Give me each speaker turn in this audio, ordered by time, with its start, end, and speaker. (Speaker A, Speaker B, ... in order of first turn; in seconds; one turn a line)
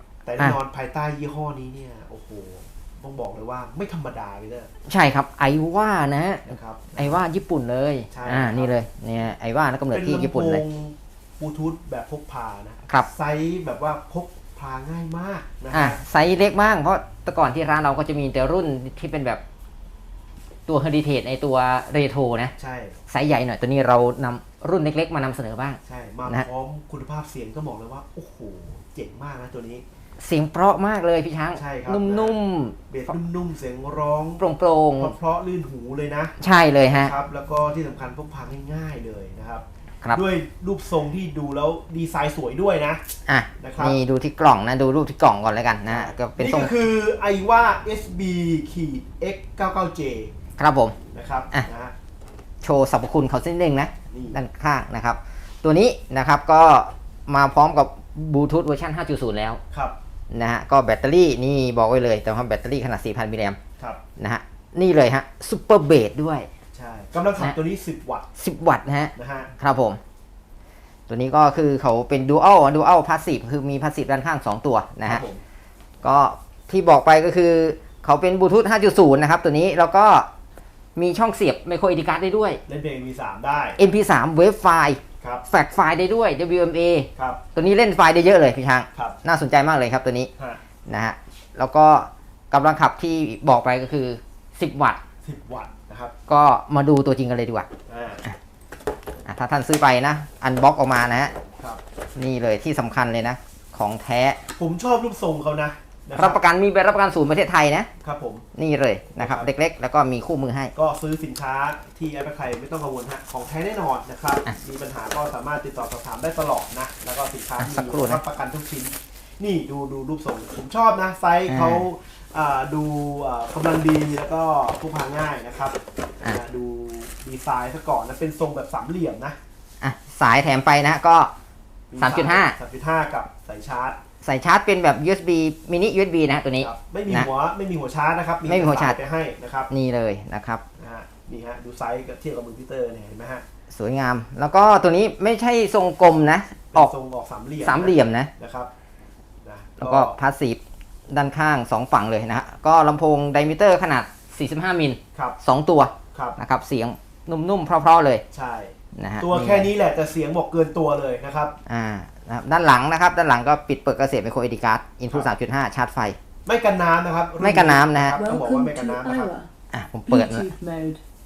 Speaker A: 0.2-4.7
Speaker B: 4.9-10.6
Speaker A: 6.4-7.2
Speaker A: 8.1-8.8
Speaker A: 9.9-16.0
Speaker B: 15.7-19.4
Speaker B: 20.7-22.5
Speaker A: 22.6-23.0
Speaker B: 23.1-26.5
Speaker A: 25.9-29.8
Speaker B: 30.2-33.1
Speaker A: 31.5-32.4
Speaker A: 32.9-34.4
Speaker B: 34.4-35.1
Speaker A: 35.0-36.3
Speaker B: 36.4-37.1
Speaker A: 36.9-43.0
Speaker B: 43.3-46.7
Speaker A: 43.5-44.0
Speaker A: 45.9-50.3
Speaker B: 50.6-51.0
Speaker A: 51.1-51.9
Speaker B: 52.6-59.6
Speaker A: 54.1-54.4
Speaker A: 59.7-60.0
Speaker B: 60.3-63.6
Speaker B: 64.2-66.5
Speaker A: 66.7-68.3
Speaker B: 68.4-70.0
Speaker A: 69.2-69.5
Speaker B: 71.1-75.2
Speaker A: 75.0-75.4
Speaker B: 76.0-80.3
Speaker B: 81.0-82.6
Speaker A: 82.7-83.8
Speaker B: 83.8-90.3
Speaker A: 87.2-87.4
Speaker B: 90.9-95.0
Speaker A: 95.2-96.1
Speaker B: 96.3-97.7
Speaker A: 97.9-98.2
Speaker B: 99.3-101.3
Speaker B: 102.2-104.4
Speaker A: 104.6-106.4
Speaker B: 106.2-107.9
Speaker A: 108.0-108.5
Speaker B: 108.6-110.7
Speaker A: 109.2-109.5
Speaker A: 110.7-129.4
Speaker B: 117.6-118.2
Speaker B: 121.5-121.8
Speaker B: 129.8-131.3
Speaker A: 131.9-134.0
Speaker B: 132.0-132.6
Speaker B: 134.2-137.3
Speaker A: 136.6-139.7
Speaker B: 138.5-139.0
Speaker B: 139.7-140.6
Speaker A: 140.8-143.4
Speaker B: 143.7-146.9
Speaker A: 146.7-148.7
Speaker B: 147.6-148.3
Speaker A: 149.4-150.2
Speaker B: 149.8-150.6
Speaker B: 151.1-158.2
Speaker A: 156.1-156.4
Speaker A: 158.3-161.6
Speaker B: 159.0-159.7
Speaker B: 161.7-166.2
Speaker A: 166.5-169.3
Speaker B: 167.4-168.2
Speaker C: 168.2-169.5
Speaker B: 169.7-170.5
Speaker C: 170.1-171.0